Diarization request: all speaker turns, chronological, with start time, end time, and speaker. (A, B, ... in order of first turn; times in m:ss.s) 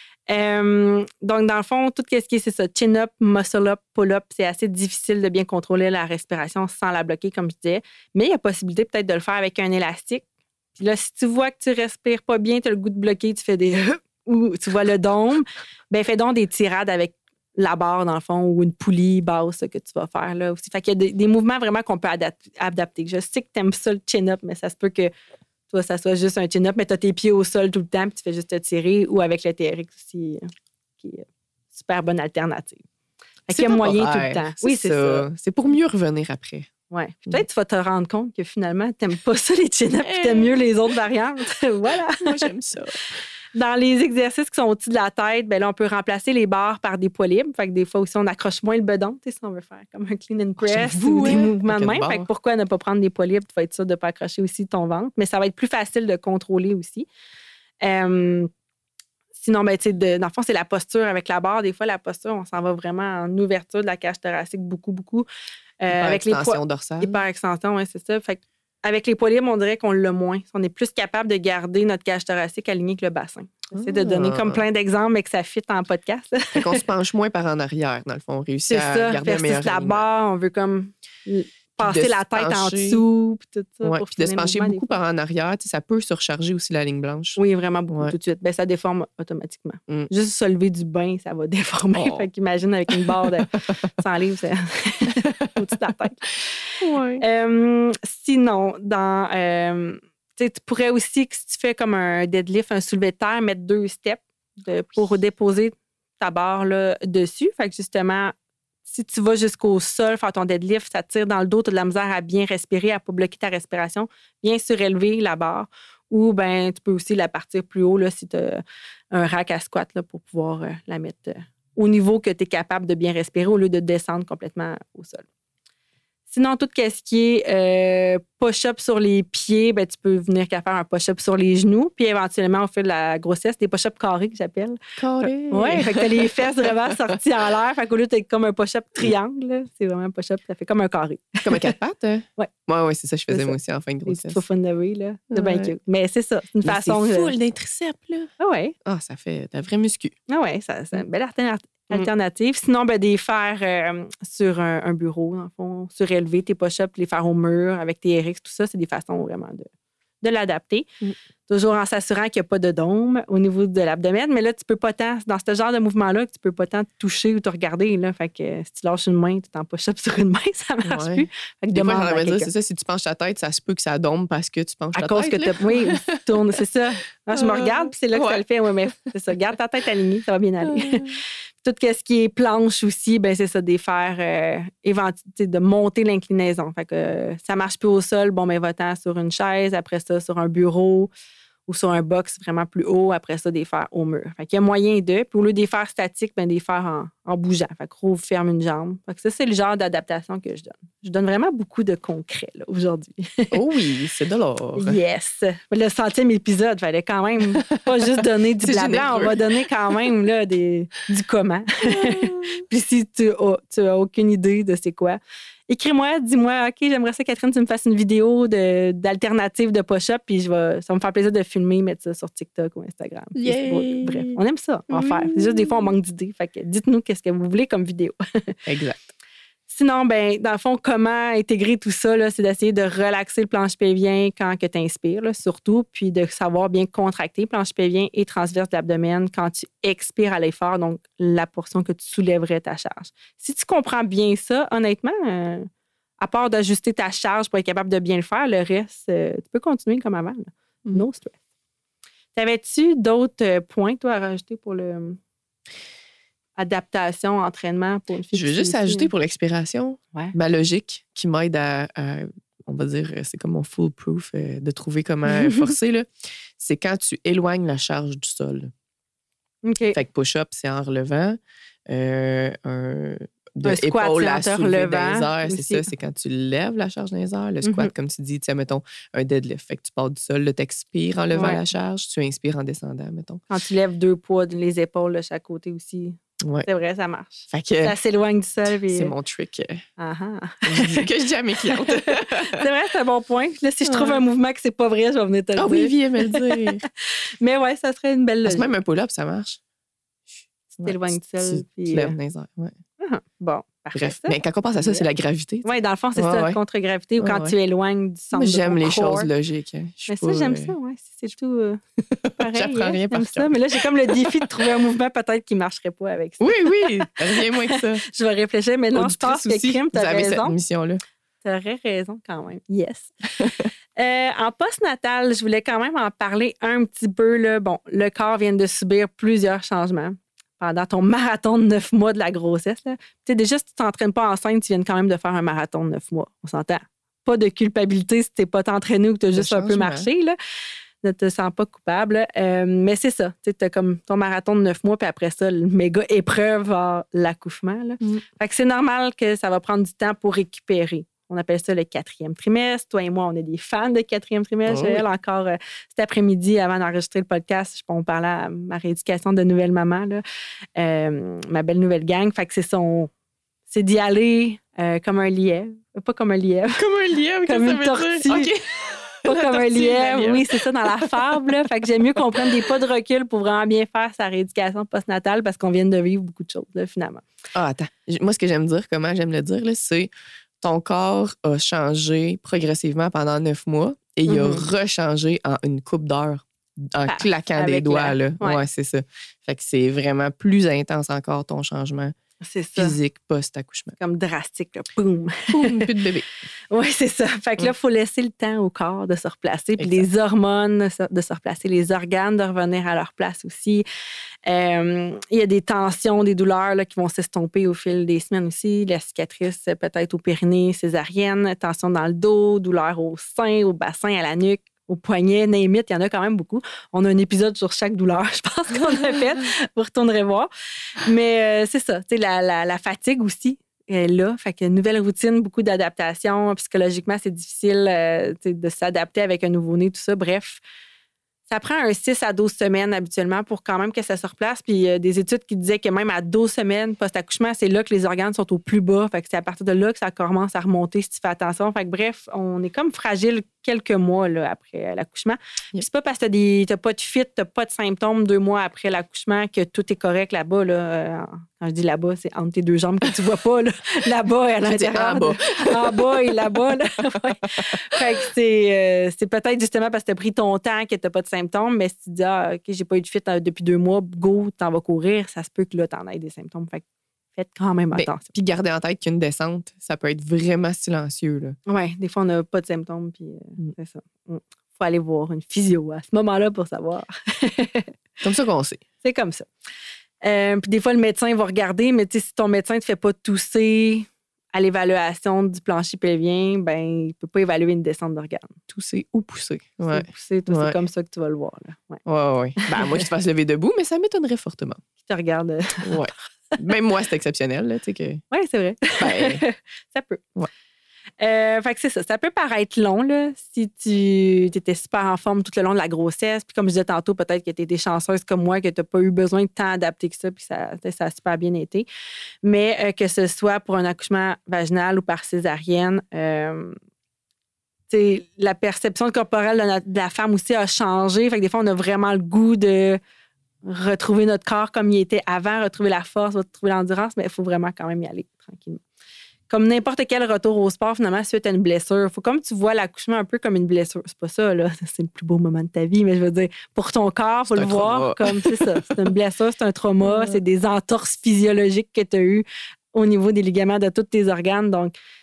0:00.3-0:25.1 A
0:25.7-0:30.5 A
0:31.0-0:32.8 A
0:33.5-0:35.2 A
0:33.5-0:36.7 B
0:36.9-0:42.4 A
0:40.0-0:40.7 B
0:41.9-0:43.2 B
0:43.5-0:57.1 A
0:50.6-0:52.3 B
0:57.8-0:58.5 A
0:59.3-1:05.2 A
1:05.8-1:16.8 A
1:05.9-1:07.2 B
1:13.7-1:14.6 B
1:16.6-1:20.0 B
1:18.6-1:24.9 A
1:21.8-1:23.0 B
1:23.8-1:27.4 B
1:27.4-1:48.3 A
1:31.9-1:32.2 B
1:32.9-1:33.2 B
1:36.8-1:37.2 B
1:48.8-2:05.2 A
2:06.3-2:21.7 A
2:15.0-2:16.7 B
2:21.4-2:24.4 B
2:23.3-2:27.3 A
2:25.3-2:25.7 B
2:26.6-2:28.3 B
2:28.4-2:28.7 A
2:28.8-2:30.1 B
2:30.3-2:39.7 A
2:40.2-2:40.9 A
2:41.5-2:52.5 A
2:50.8-2:56.2 B
2:54.9-3:11.1 A
2:57.3-2:58.4 B
3:00.6-3:01.2 B
3:11.7-3:23.6 A
3:23.5-3:25.0 B
3:24.8-3:48.6 A
3:27.5-3:27.8 B
3:28.6-3:29.4 B
3:31.9-3:32.6 B
3:43.3-3:44.4 B
3:44.9-3:45.9 B
3:48.7-3:49.0 B
3:49.7-4:05.7 A
4:06.2-4:11.4 A
4:12.4-4:15.2 A
4:16.6-4:19.1 A
4:18.3-4:28.7 B
4:25.4-4:25.6 A
4:29.6-4:30.0 A
4:29.9-4:43.4 B
4:33.6-4:35.9 A
4:37.6-4:37.9 A
4:41.3-4:41.6 A
4:43.5-4:49.1 A
4:46.4-4:46.7 B
4:47.5-4:47.9 B
4:48.9-4:49.8 B
4:50.0-4:51.1 A
4:50.6-4:52.6 B
4:51.6-4:58.7 A
4:53.8-4:54.2 B
4:55.6-4:56.8 B
4:58.4-4:59.6 B
5:00.7-5:02.2 A
5:00.8-5:02.8 B
5:03.0-5:05.0 A
5:03.9-5:06.6 B
5:05.6-5:09.3 A
5:07.2-5:07.5 B
5:08.3-5:10.7 B
5:10.1-5:11.8 A
5:12.2-5:14.6 B
5:12.4-5:20.5 A
5:16.4-5:18.0 B
5:18.9-5:21.0 B
5:21.4-5:23.1 A
5:23.4-5:23.7 B
5:24.0-5:40.4 A
5:39.3-5:40.1 B
5:41.0-6:00.2 A
5:54.7-5:55.0 B
6:00.8-6:03.1 A
6:03.7-6:06.8 A
6:06.8-6:11.6 B
6:07.4-6:08.5 A
6:09.2-6:17.2 A
6:12.4-6:12.7 B
6:17.5-6:32.1 B
6:24.2-6:24.6 A
6:27.1-6:28.6 A
6:32.4-6:33.0 A
6:32.8-6:34.0 B
6:34.0-6:35.8 A
6:35.5-6:36.3 B
6:36.7-6:43.8 A
6:39.8-6:40.0 B
6:44.4-7:10.6 A
7:11.5-7:46.8 A
7:34.6-7:36.3 B
7:37.5-7:38.0 B
7:47.4-7:48.3 A
7:47.9-7:51.6 B
7:51.7-7:57.9 A
7:58.2-7:58.8 B
7:59.0-7:59.5 A
8:00.2-8:08.6 A
8:08.7-8:10.8 B
8:09.9-8:12.0 A
8:12.0-8:14.8 B
8:12.6-8:13.1 A
8:15.0-8:15.9 A
8:15.8-8:18.2 B
8:18.3-8:20.2 A
8:19.0-8:19.4 B
8:21.2-8:31.9 A
8:32.4-8:36.8 A
8:37.9-8:43.0 A
8:43.6-8:48.8 A
8:49.5-9:04.9 A
8:57.5-8:58.8 B
9:00.0-9:00.4 B